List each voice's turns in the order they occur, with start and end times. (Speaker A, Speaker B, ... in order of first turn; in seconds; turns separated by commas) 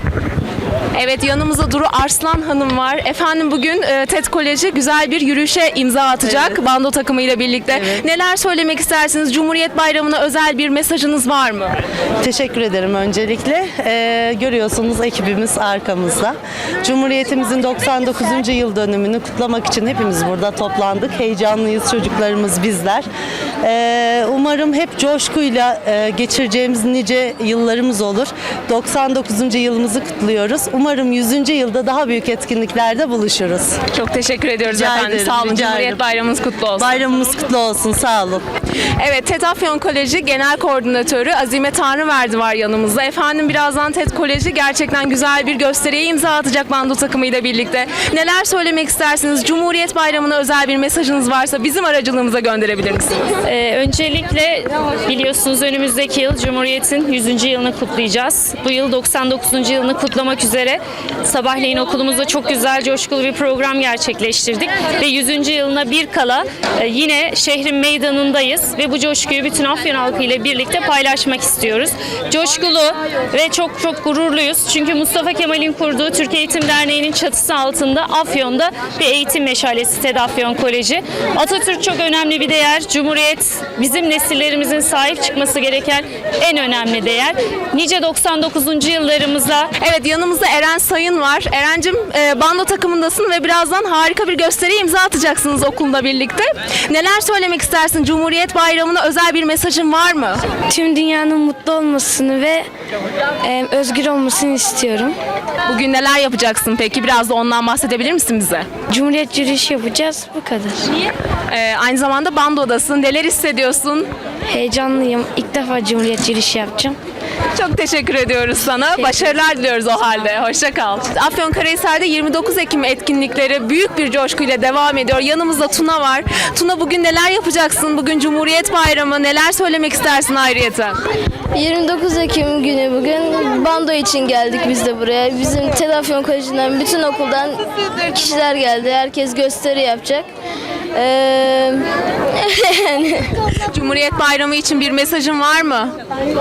Speaker A: 0.9-11.8, Speaker B: 6.2-6.6, Speaker B: 7.7-8.0, Speaker B: 12.2-23.1, Speaker B: 23.6-33.8, Speaker A: 33.9-37.0, Speaker B: 34.7-36.0, Speaker B: 36.8-38.5, Speaker A: 39.0-53.4, Speaker C: 53.5-89.7, Speaker A: 89.8-100.5, Speaker D: 100.7-102.7, Speaker D: 103.4-105.2, Speaker A: 105.7-108.8, Speaker D: 108.9-110.9, Speaker A: 111.5-114.1, Speaker D: 114.5-117.0, Speaker A: 117.5-131.0, Speaker D: 119.0-119.4, Speaker E: 131.5-140.3, Speaker E: 140.9-143.3, Speaker A: 143.7-145.9